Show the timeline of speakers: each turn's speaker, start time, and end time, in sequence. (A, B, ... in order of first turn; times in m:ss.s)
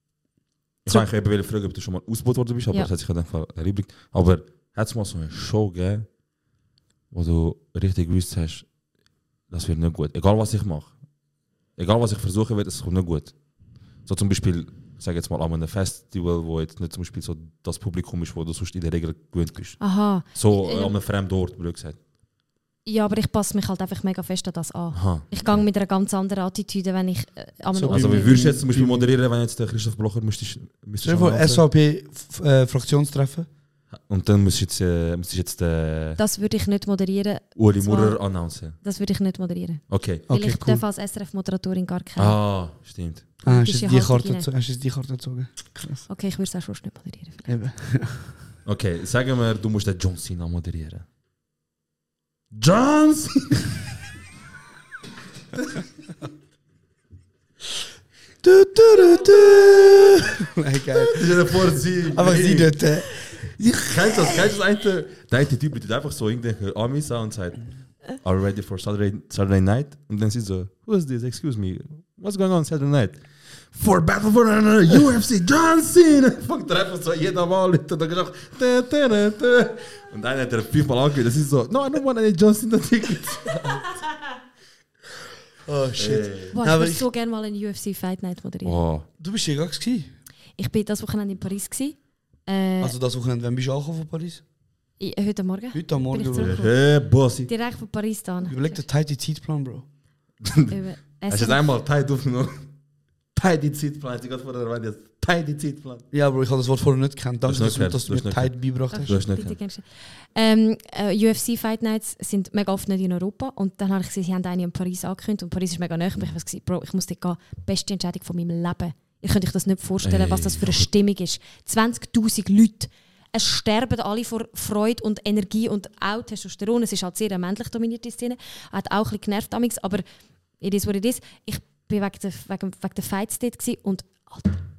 0:00.8-0:06.1 A
0:07.1-0:08.7 A
0:09.5-0:10.9 A
0:11.8-0:13.3 A
0:14.0-0:19.8 A
0:19.8-0:20.9 B
0:20.3-0:22.0 A
0:22.8-0:28.5 B
0:24.9-0:25.6 A
0:27.7-0:29.1 C
0:27.9-0:31.6 A
0:31.0-0:33.5 C
0:34.0-0:36.2 A
0:36.2-0:38.2 B
0:37.6-0:38.8 A
0:38.8-0:42.4 B
0:39.9-0:40.2 A
0:40.3-0:40.8 C
0:42.2-0:43.3 A
0:43.4-0:46.1 C
0:43.5-0:44.5 B
0:46.1-0:47.5 B
0:47.5-0:48.4 C
0:48.6-0:51.0 A
0:52.5-0:53.7 A
0:58.4-1:03.3 C
1:01.1-1:13.2 A
1:13.7-1:23.8 A
1:23.5-1:23.8 C
1:25.7-1:27.1 C
1:26.0-1:26.6 A
1:26.5-1:28.8 B
1:28.6-1:29.1 A
1:29.2-1:30.1 C
1:30.6-1:33.0 B
1:32.8-1:34.4 C
1:35.0-1:36.8 B
1:35.7-1:36.6 C
1:36.4-1:37.5 A
1:37.5-1:38.8 B
1:38.4-1:39.9 C
1:40.4-1:40.7 A
1:40.7-1:41.6 B
1:41.3-1:42.6 A
1:43.4-1:46.0 A
1:46.1-1:49.2 C
1:47.5-1:49.6 A
1:48.9-2:10.0 B
2:00.0-2:00.9 A
2:10.6-2:14.6 B